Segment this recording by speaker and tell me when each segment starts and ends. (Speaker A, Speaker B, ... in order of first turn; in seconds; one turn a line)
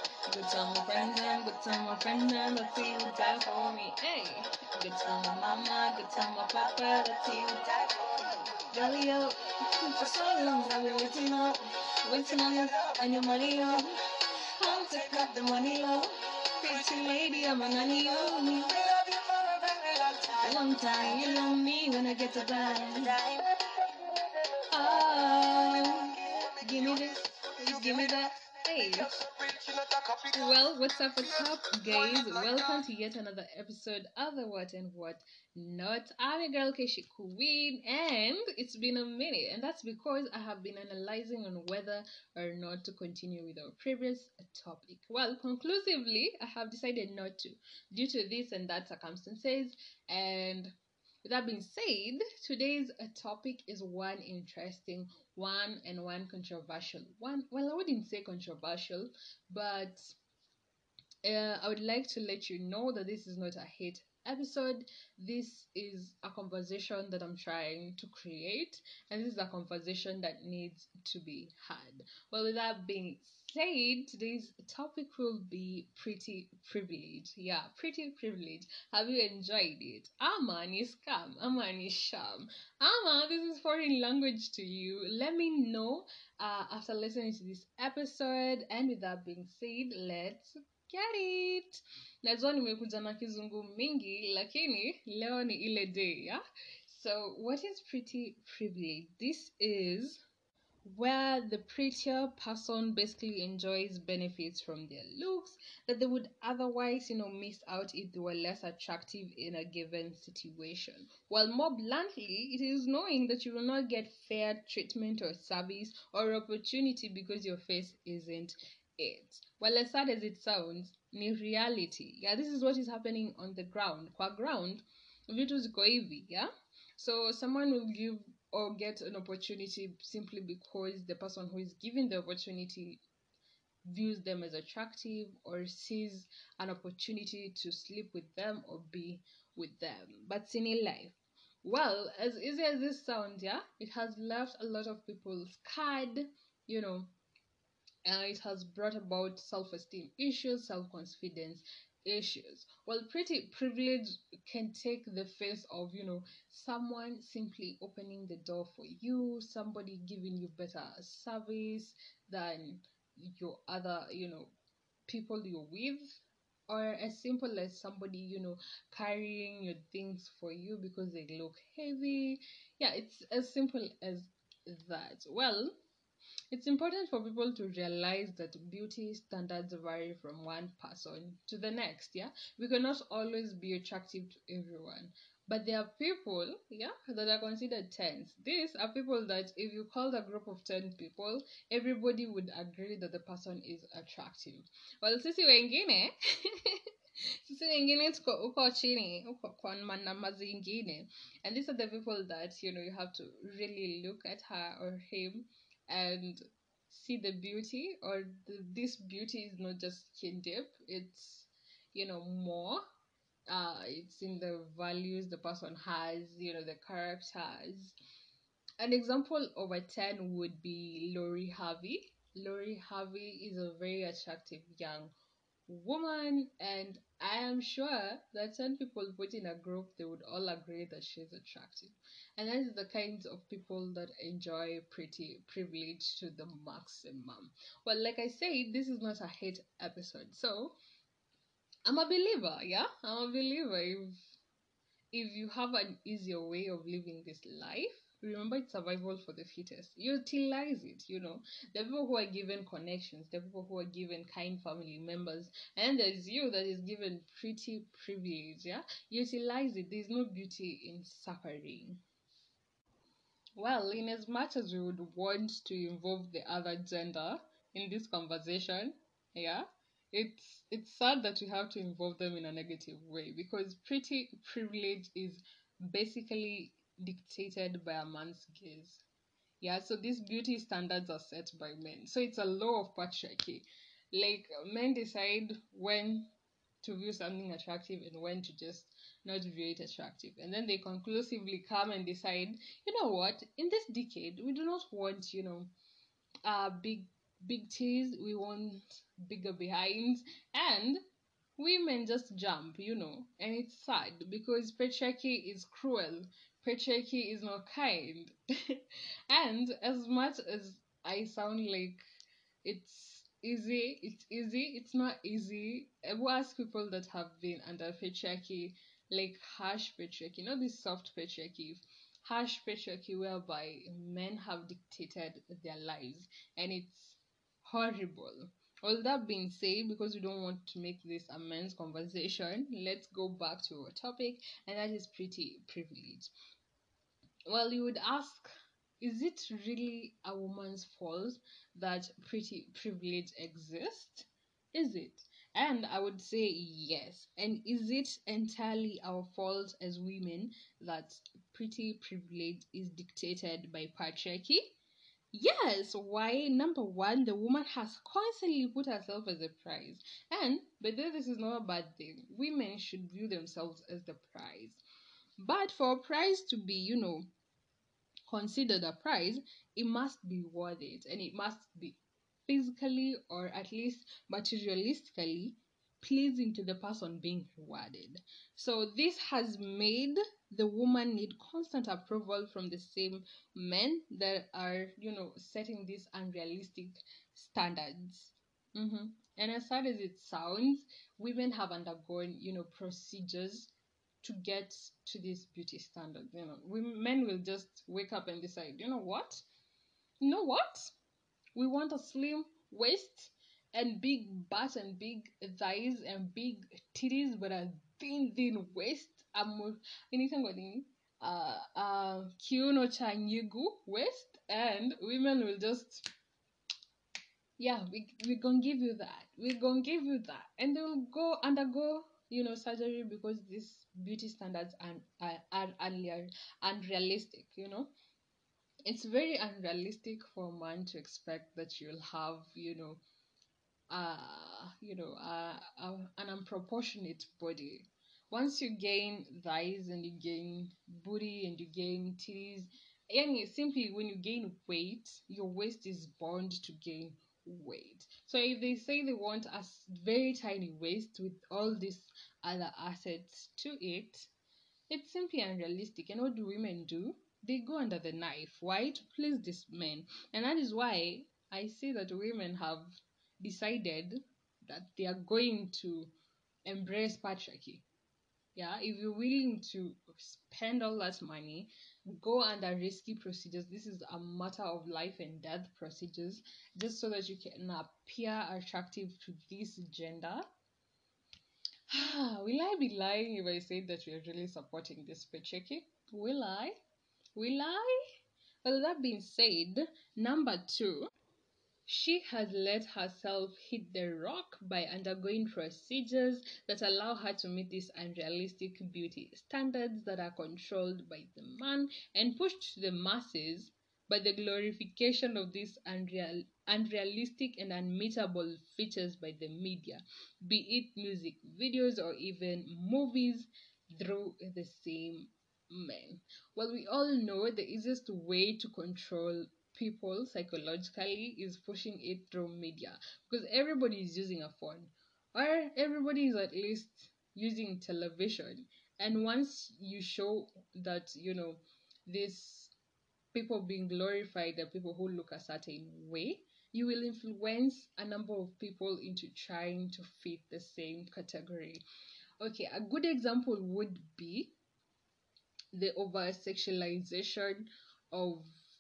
Speaker A: 0.3-14.0
Speaker A: 14.6-23.5
Speaker A: 24.7-60.2
Speaker A: 61.2-100.2
Speaker A: 100.8-133.0
Speaker A: 133.8-147.1
Speaker A: 148.1-164.5
Speaker A: 165.1-175.7
Speaker A: 176.5-196.8
Speaker A: 197.4-212.8
Speaker A: 213.5-218.0
Speaker A: 218.8-225.1
Speaker A: 225.7-240.8
Speaker A: 241.8-244.2
Speaker A: 245.1-262.0
Speaker A: 263.6-279.0
Speaker A: 279.6-286.3
Speaker A: 286.8-295.7
Speaker A: 296.4-301.0
Speaker A: 301.6-312.0
Speaker A: 312.6-336.3
Speaker A: 337.5-338.5
Speaker A: 339.0-354.8
Speaker A: 355.3-364.8
Speaker A: 365.4-367.3
Speaker A: 368.3-399.4
Speaker A: 400.2-400.9
Speaker A: 401.5-416.1
Speaker A: 417.6-427.9
Speaker A: 428.9-433.0
Speaker A: 433.9-454.3
Speaker A: 454.9-466.1
Speaker A: 466.6-467.8
Speaker A: 468.5-480.4
Speaker A: 481.9-486.8
Speaker A: 487.3-487.9
Speaker A: 488.6-491.1
Speaker A: 491.9-532.7
Speaker A: 533.3-541.8
Speaker A: 542.4-544.5
Speaker A: 545.7-548.5